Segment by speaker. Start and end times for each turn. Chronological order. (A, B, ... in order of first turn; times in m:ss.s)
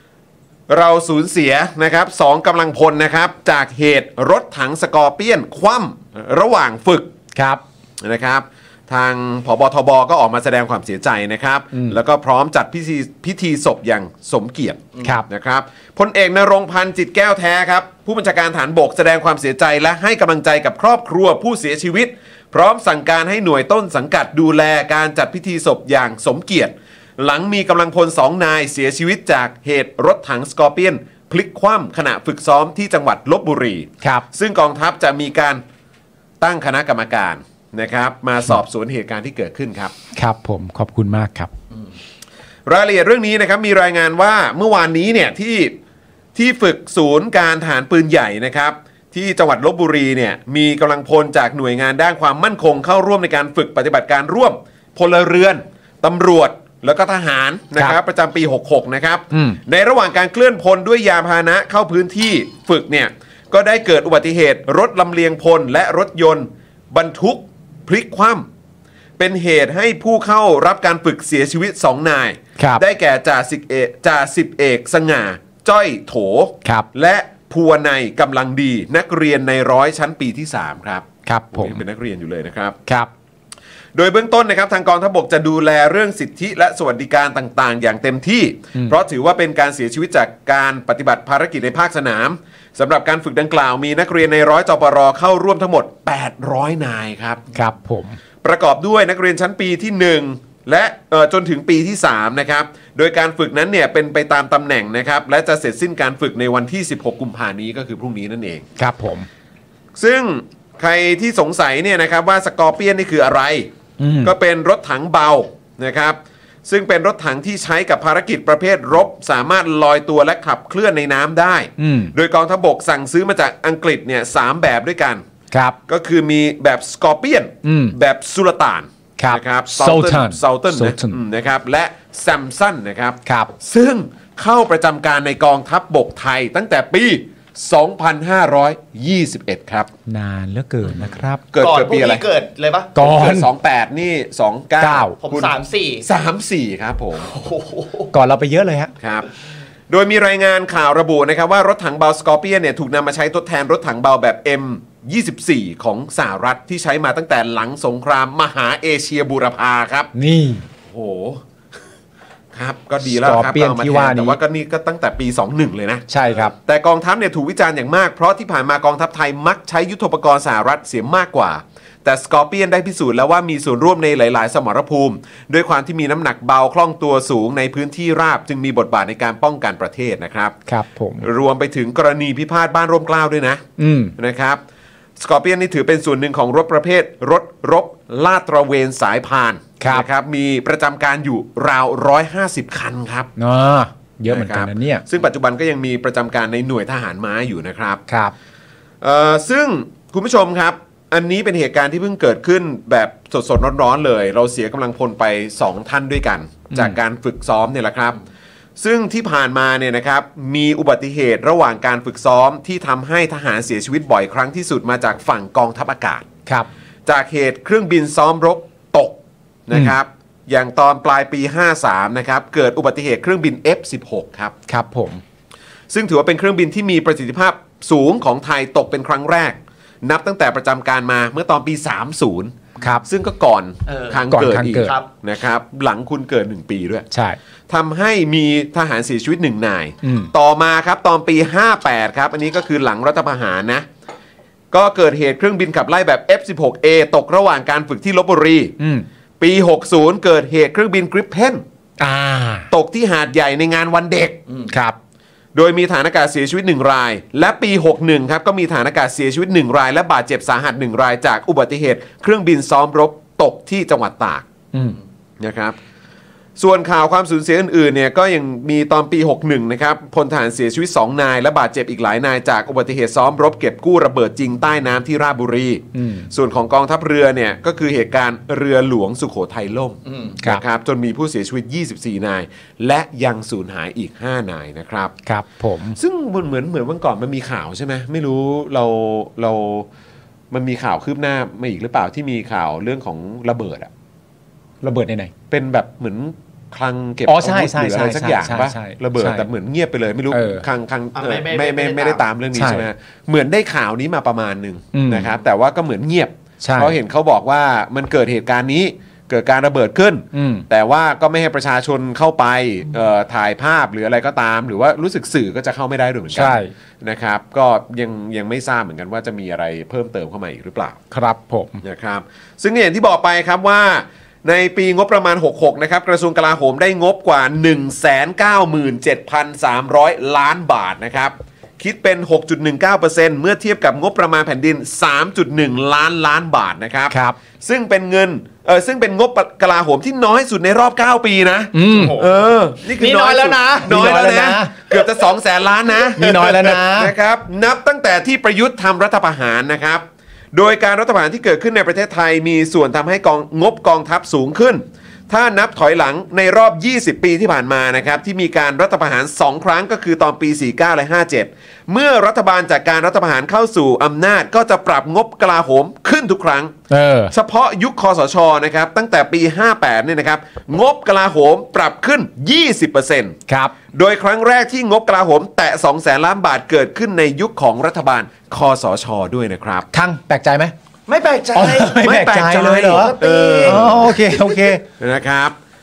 0:00.7-0:07.1 A
0:07.3-0:07.6 B
0:08.0-0:35.6 A
0:11.7-0:12.0 B
0:36.4-0:39.9 A
0:40.1-0:41.5 B
0:42.6-0:45.7 A
0:46.3-1:08.4 A
0:59.3-0:59.6 B
1:09.2-1:22.8 A
1:12.6-1:12.8 B
1:21.2-1:21.8 B
1:23.9-1:37.4 A
1:37.5-1:38.2 B
1:38.4-1:48.6 A
1:48.8-1:49.3 B
1:50.0-1:53.7 A
1:54.0-1:54.3 B
1:54.2-2:05.2 A
2:01.8-2:02.1 B
2:05.9-2:19.9 A
2:07.6-2:08.0 B
2:09.2-2:11.2 B
2:13.2-2:13.5 B
2:20.1-2:21.4 B
2:21.5-2:22.2 A
2:21.6-2:22.9 C
2:23.0-2:23.5 B
2:23.0-2:25.5 A
2:24.8-2:25.2 B
2:25.2-2:26.0 C
2:26.0-2:27.3 A
2:27.2-2:28.1 C
2:28.1-2:28.9 B
2:29.0-2:29.3 A
2:29.9-2:40.1 A
2:40.1-2:40.6 B
2:40.8-2:41.4 A
2:42.5-3:00.5 A
2:43.0-2:44.4 B
2:46.1-2:46.5 B
3:00.7-3:01.3 B
3:01.2-3:03.6 A
3:03.8-3:04.1 B
3:04.2-3:04.6 A
3:05.2-3:13.3 A
3:09.8-3:10.0 B
3:13.4-3:15.0 B
3:14.3-3:18.0 A
3:18.1-3:18.3 B
3:19.0-3:28.2 A
3:26.7-3:27.0 B
3:28.8-3:36.3 A
3:37.0-3:44.5 A
3:44.7-3:45.2 B
3:45.9-3:57.1 A
3:52.8-3:53.0 B
3:53.9-3:54.2 C
3:54.3-3:54.9 B
3:54.8-3:55.1 C
3:57.1-3:57.4 B
3:57.7-4:03.8 A
4:00.0-4:00.3 B
4:04.7-4:08.7 A
4:08.8-4:09.0 B
4:09.4-4:11.6 A
4:12.0-4:12.7 B
4:12.7-4:14.4 A
4:14.7-4:15.0 B
4:15.5-4:24.4 A
4:24.7-4:25.0 B
4:25.4-4:25.8 A
4:26.6-4:45.1 A
4:35.9-4:36.3 B
4:40.0-4:40.4 C
4:45.2-4:46.0 B
4:46.0-4:49.9 A
4:50.5-4:53.9 A
4:54.8-4:55.3 B
4:55.5-5:21.0 A
4:57.3-4:59.5 B
5:00.3-5:00.6 B
5:01.2-5:02.2 C
5:02.5-5:02.9 B
5:04.9-5:05.3 B
5:06.6-5:07.0 B
5:10.3-5:10.6 B
5:16.3-5:16.7 B
5:21.1-5:21.8 B
5:21.8-6:06.7 A
5:37.1-5:37.4 B
5:41.7-5:42.2 B
5:41.9-5:42.4 C
5:42.9-5:44.0 C
5:43.8-5:44.7 B
5:46.2-5:46.8 C
5:46.2-5:47.1 B
6:06.9-6:07.3 B
6:07.3-6:13.4 A
6:13.5-6:13.7 B
6:13.9-6:19.9 A
6:19.9-6:20.7 B
6:21.1-6:21.9 C
6:21.5-6:24.8 B
6:21.9-6:24.1 A
6:22.9-6:24.7 C
6:25.0-6:25.5 A